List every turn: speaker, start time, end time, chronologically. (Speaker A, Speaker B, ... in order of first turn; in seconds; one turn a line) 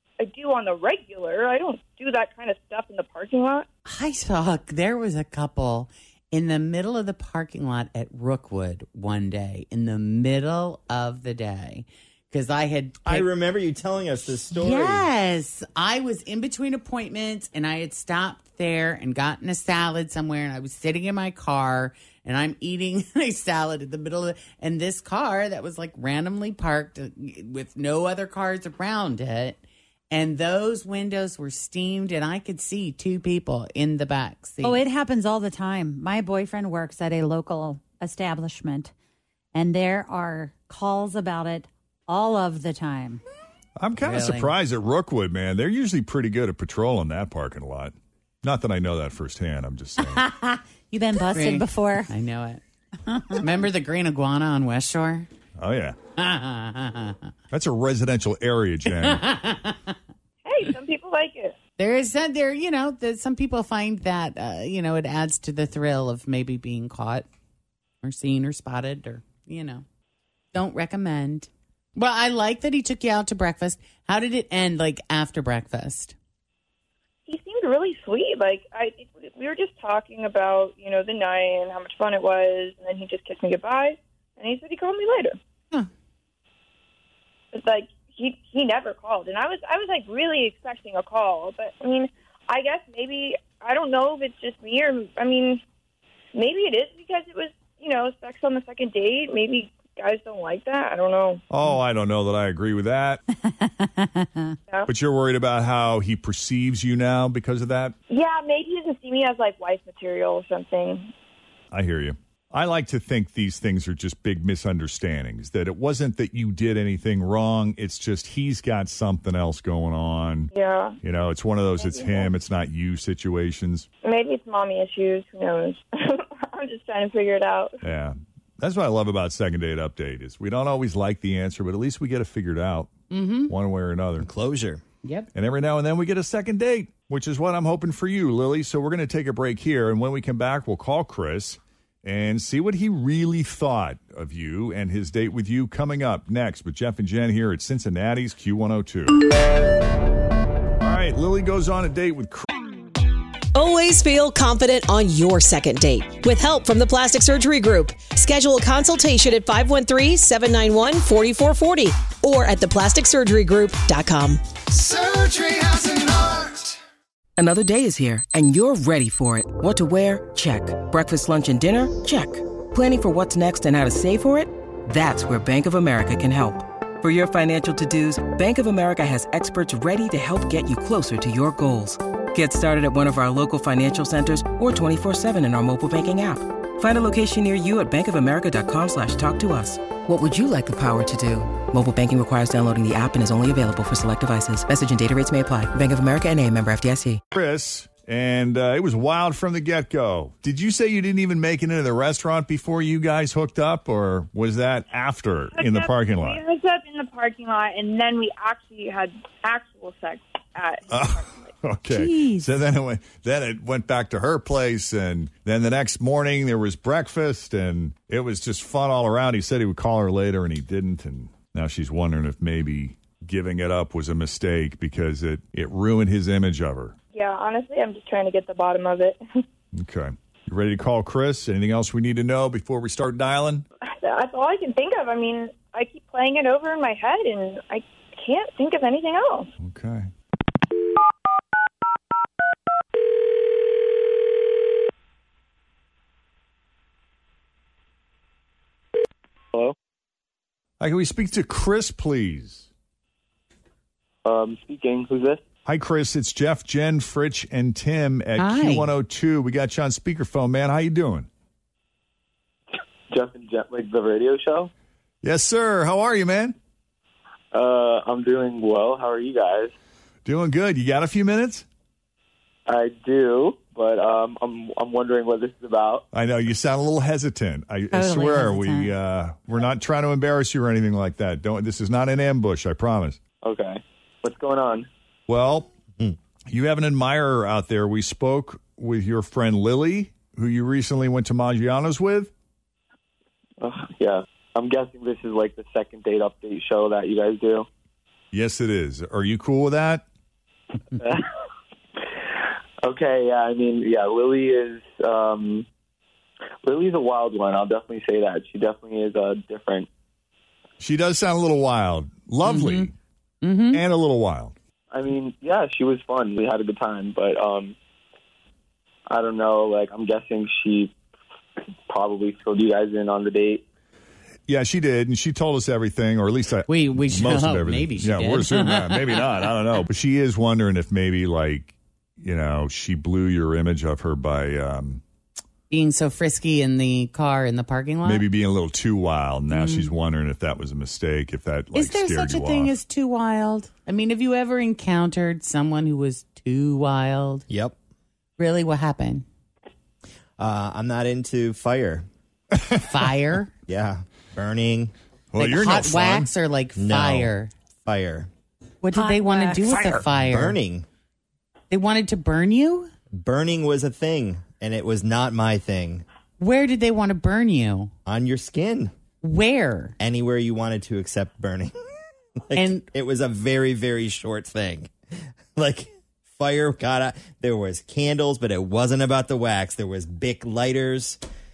Speaker A: 0.2-3.6
Speaker B: 3.9-13.2
Speaker C: 13.0-15.1
Speaker B: 14.5-29.6
Speaker B: 30.1-34.8
Speaker D: 34.6-38.9
Speaker D: 39.5-43.2
Speaker E: 43.8-50.2
Speaker B: 44.0-44.5
Speaker D: 50.1-52.1
Speaker B: 51.3-52.6
Speaker B: 53.3-55.3
Speaker E: 55.6-56.0
Speaker B: 56.2-57.2
Speaker E: 57.5-59.2
Speaker B: 58.9-59.9
Speaker A: 60.4-61.5
Speaker B: 61.8-67.2
Speaker B: 68.0-69.8
Speaker B: 70.5-76.1
Speaker A: 77.3-85.3
Speaker A: 87.5-95.6
Speaker A: 96.3-101.4
Speaker E: 101.5-103.2
Speaker D: 103.5-104.5
Speaker E: 104.8-108.0
Speaker A: 108.1-111.1
Speaker E: 111.7-120.5
Speaker A: 120.5-121.0
Speaker E: 121.0-123.9
Speaker A: 121.8-122.3
Speaker A: 124.0-127.7
Speaker E: 127.8-132.9
Speaker B: 133.1-133.5
Speaker E: 133.4-134.3
Speaker C: 134.2-134.8
Speaker B: 135.0-135.3
Speaker E: 135.3-149.2
Speaker E: 150.8-152.4
Speaker F: 153.5-164.4
Speaker F: 166.1-166.4
Speaker G: 167.4-197.2
Speaker E: 197.3-206.4
Speaker A: 205.5-211.5
Speaker E: 210.9-226.9
Speaker D: 211.9-212.5
Speaker A: 227.1-229.2
Speaker E: 229.7-233.6
Speaker A: 233.9-239.5
Speaker E: 239.6-240.1
Speaker E: 250.8-252.7
Speaker H: 254.2-255.4
Speaker E: 255.6-261.3
Speaker B: 258.4-258.9
Speaker H: 263.1-264.7
Speaker E: 265.2-266.5
Speaker H: 267.5-269.7
Speaker E: 270.2-271.6
Speaker H: 272.7-276.0
Speaker E: 276.1-283.2
Speaker D: 277.9-278.9
Speaker H: 283.4-284.9
Speaker E: 285.3-285.7
Speaker E: 286.5-292.3
Speaker H: 293.6-297.7
Speaker E: 298.3-300.0
Speaker H: 300.9-301.2
Speaker H: 302.8-305.6
Speaker H: 306.6-309.9
Speaker E: 310.8-312.9
Speaker B: 312.4-312.9
Speaker B: 313.4-313.8
Speaker E: 313.7-314.5
Speaker H: 314.9-317.7
Speaker H: 319.1-320.9
Speaker H: 321.9-323.6
Speaker E: 324.5-335.0
Speaker B: 326.7-329.4
Speaker B: 335.7-338.2
Speaker E: 338.0-342.7
Speaker B: 339.5-339.9
Speaker B: 341.7-347.4
Speaker C: 347.5-347.7
Speaker B: 348.4-349.2
Speaker C: 350.4-352.1
Speaker B: 352.8-353.5
Speaker C: 353.7-354.9
Speaker E: 355.3-356.3
Speaker B: 355.4-357.5
Speaker C: 356.8-357.3
Speaker C: 357.9-358.3
Speaker B: 358.8-360.6
Speaker D: 358.9-360.0
Speaker C: 360.0-360.9
Speaker B: 361.7-362.9
Speaker C: 363.2-366.0
Speaker B: 366.4-367.9
Speaker C: 368.1-368.9
Speaker B: 369.2-369.9
Speaker C: 370.0-371.7
Speaker C: 372.5-374.9
Speaker B: 372.5-372.8
Speaker C: 375.5-381.2